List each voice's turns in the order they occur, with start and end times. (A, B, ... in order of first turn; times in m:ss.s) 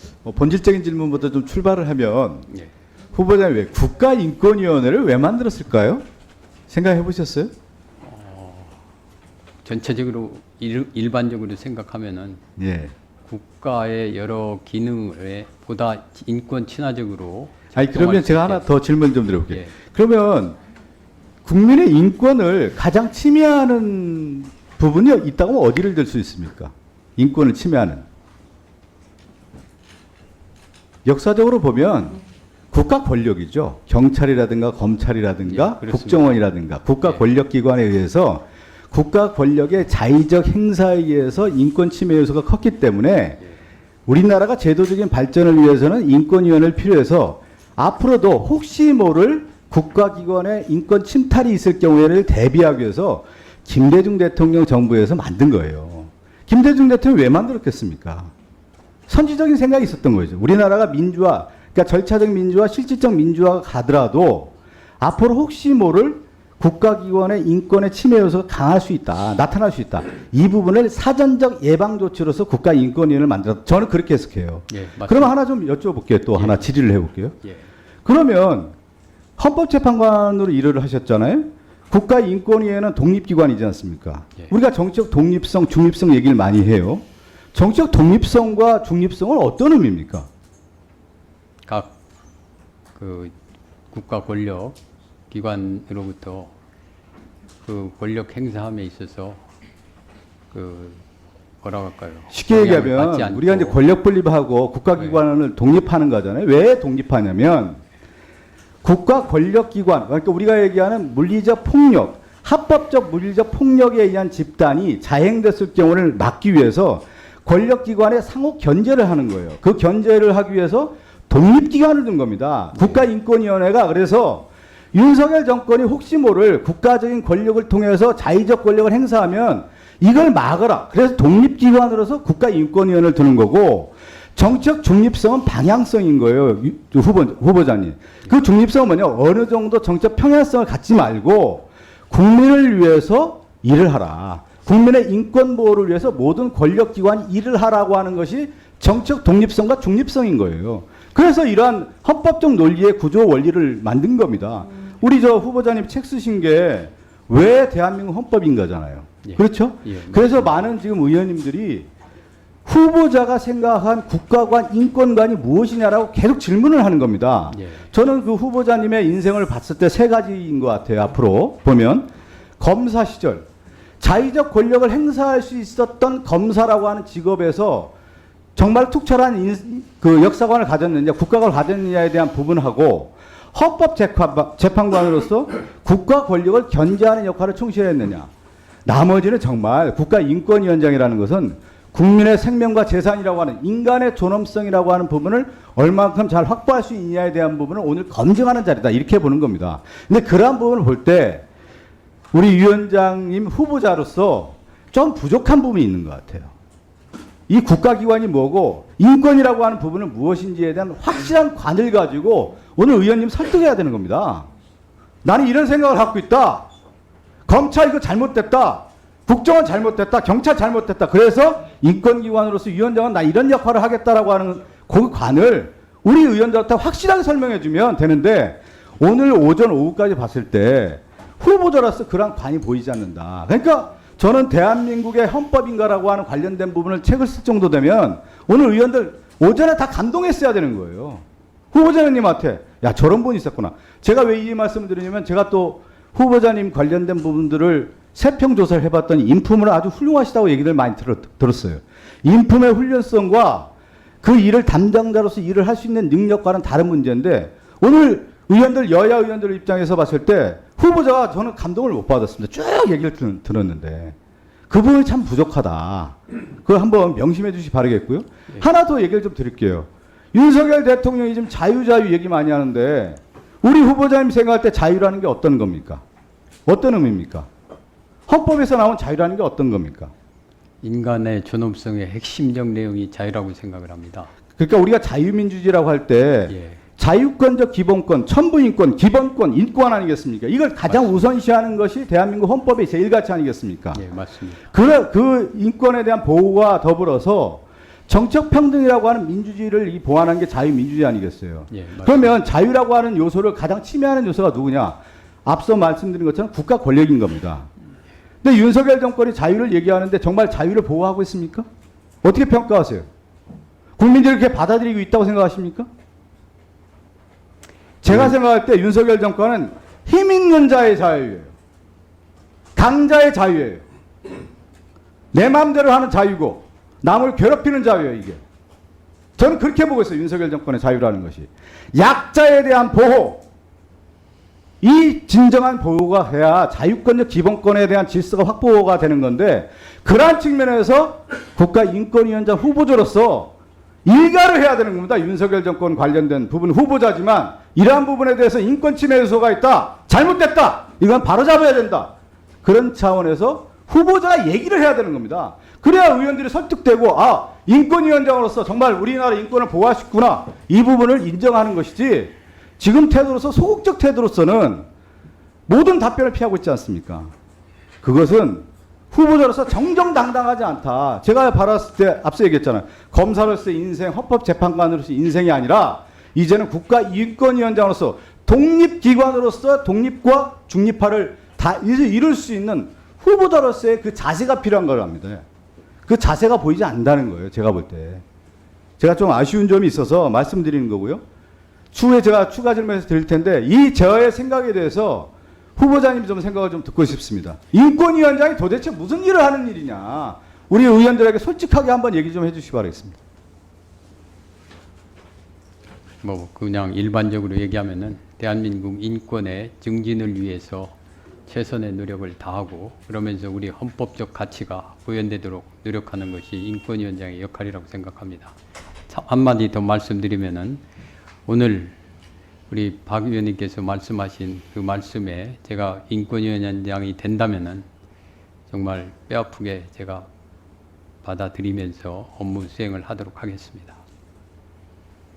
0:00.2-0:02.5 A
0:03.1-0:06.0 A
0:06.7-0:07.5 A
0:08.0-0:08.8 B
0:09.6-0:12.4 B
0:12.6-0:12.9 A
0:13.2-0:18.7 B
0:17.7-0:20.6 A
0:21.4-0:28.0 A
0:31.0-0:32.2 A
0:32.7-0:43.4 A
0:35.4-0:36.4 B
0:44.1-0:58.3 A
0:59.1-1:17.3 A
1:14.7-1:15.3 B
1:16.3-1:16.7 B
1:18.0-1:18.7 A
1:19.4-1:30.3 A
1:31.6-1:32.0 B
1:33.0-1:33.3 B
1:33.9-1:34.8 B
1:35.3-1:36.5 B
1:37.6-1:39.4 B
1:40.5-1:41.0 B
1:41.6-1:43.8 B
1:42.3-1:47.8 A
1:45.0-1:45.2 B
1:48.8-2:41.9 A
2:02.7-2:03.1 B
2:39.2-2:40.6 B
2:42.6-2:53.5 A
2:47.5-2:47.8 B
2:54.0-2:57.9 A
2:58.6-3:08.3 A
3:08.8-3:21.4 A
3:22.3-3:26.5 A
3:27.5-3:34.5 A
3:35.2-3:36.7 A
3:37.5-4:13.7 A
4:14.2-4:24.1 A
4:24.7-4:36.0 A
4:36.6-4:37.5 A
4:38.3-4:40.1 A
4:40.8-4:44.3 B
4:44.6-4:54.0 A
4:46.5-4:46.8 B
4:50.9-4:51.3 B
4:53.9-4:54.7 B
4:54.7-5:07.7 A
5:01.7-5:02.4 B
5:08.4-5:11.7 A
5:12.2-5:13.0 A
5:14.0-5:15.9 A
5:18.0-5:21.5 A
5:22.7-5:23.8 A
5:25.3-5:28.4 A
5:29.4-5:33.4 A
5:34.8-5:43.5 A
5:44.0-5:52.1 A
5:52.6-6:04.8 A
6:05.7-6:07.3 A
6:08.0-6:25.4 A
6:26.0-6:28.2 A
6:29.0-6:31.2 A
6:31.9-6:43.2 A
6:46.2-6:50.9 B
6:51.5-6:58.5 B
6:59.1-7:00.8 B
7:01.4-7:02.0 B
7:02.7-7:07.8 B
7:08.7-7:10.3 B
7:11.2-7:14.0 B